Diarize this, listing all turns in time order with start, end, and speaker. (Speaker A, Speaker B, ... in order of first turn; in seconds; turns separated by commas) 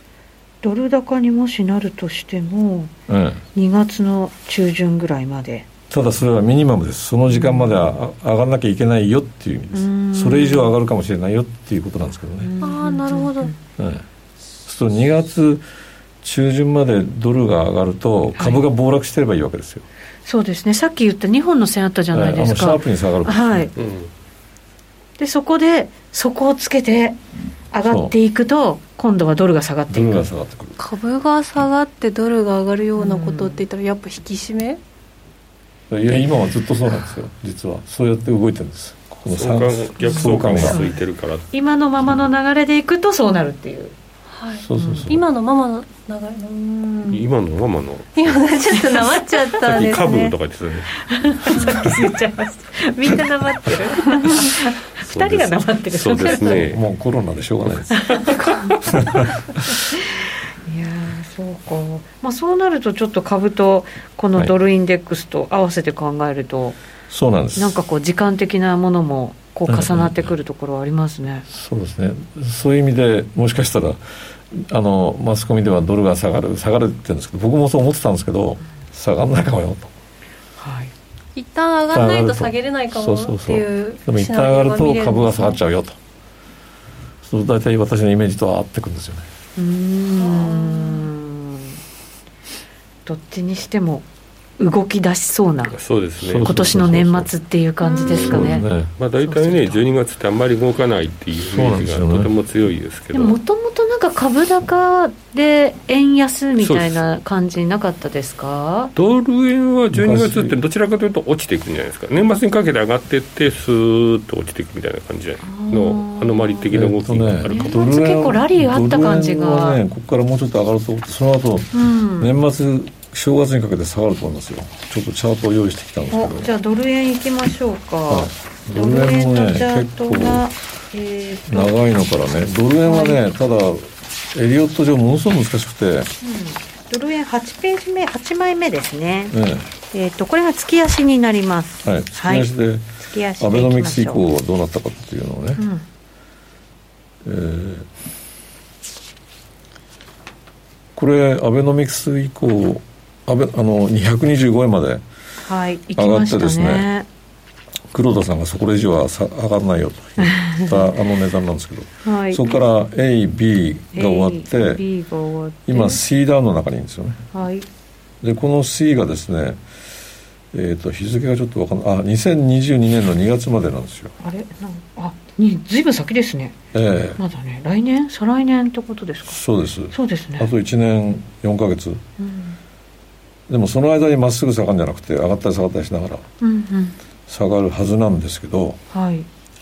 Speaker A: 0.6-2.9, Speaker B: 3.1-3.4, Speaker A: 3.6-5.7, Speaker B: 5.9-12.5, Speaker A: 9.8-10.7, Speaker A: 12.4-13.5, Speaker C: 12.6-13.5, Speaker B: 13.8-14.1, Speaker B: 14.7-15.6, Speaker B: 16.2-19.9, Speaker A: 20.3-23.7, Speaker B: 22.1-23.7, Speaker D: 23.8-24.1, Speaker A: 25.2-27.2, Speaker A: 27.7-30.2, Speaker B: 27.8-28.1, Speaker B: 29.9-30.8, Speaker C: 30.8-34.8, Speaker A: 33.0-33.5, Speaker B: 35.9-40.8, Speaker D: 39.3-41.5, Speaker A: 40.1-40.9, Speaker A: 41.5-43.9, Speaker C: 44.3-47.2, Speaker B: 44.6-45.2, Speaker A: 44.8-45.0, Speaker D: 47.1-49.0, Speaker C: 48.2-50.4, Speaker D: 49.6-51.6, Speaker A: 51.0-56.5, Speaker C: 51.5-51.9, Speaker C: 53.8-54.3, Speaker D: 54.3-56.8, Speaker B: 56.3-58.2, Speaker A: 58.0-59.0, Speaker B: 58.9-59.7, Speaker A: 60.7-66.8, Speaker B: 67.1-67.8, Speaker A: 67.6-71.5, Speaker B: 69.7-70.3, Speaker B: 71.5-74.0, Speaker B: 74.5-79.9, Speaker A: 80.6-80.9, Speaker C: 81.4-85.6, Speaker B: 81.9-86.0, Speaker B: 87.2-89.2, Speaker A: 89.6-91.7, Speaker C: 90.1-91.1, Speaker A: 93.1-94.0, Speaker A: 94.6-95.8, Speaker D: 95.7-97.1, Speaker B: 96.2-97.3, Speaker A: 96.5-98.7, Speaker D: 98.0-103.4, Speaker B: 98.1-98.9, Speaker A: 99.2-99.8, Speaker B: 101.5-102.3, Speaker A: 103.1-108.9, Speaker D: 106.6-107.1, Speaker D: 109.0-117.8, Speaker B: 109.9-110.6, Speaker A: 115.5-116.7, Speaker B: 116.7-126.5, Speaker A: 117.4-119.8, Speaker A: 121.7-122.3, Speaker A: 126.1-131.8, Speaker B: 128.1-130.5, Speaker B: 131.5-136.1, Speaker A: 132.8-133.2, Speaker A: 136.2-139.3, Speaker B: 139.3-139.7, Speaker A: 139.9-144.2, Speaker B: 141.8-145.6, Speaker A: 145.6-145.8, Speaker B: 147.2-147.9, Speaker B: 151.0-155.0, Speaker A: 155.5-157.1, Speaker B: 156.0-156.9, Speaker B: 157.9-164.8, Speaker A: 160.2-160.9, Speaker A: 162.0-162.6, Speaker A: 163.9-166.0, Speaker B: 165.7-167.2, Speaker A: 167.3-167.7, Speaker B: 168.2-169.6, Speaker B: 170.5-174.1, Speaker A: 174.2-176.6, Speaker B: 176.7-177.2, Speaker A: 177.2-179.4, Speaker B: 179.3-182.0, Speaker A: 179.9-180.5, Speaker A: 182.2-182.6, Speaker B: 183.5-186.2, Speaker A: 186.4-186.9, Speaker B: 187.3-188.8, Speaker A: 188.9-189.3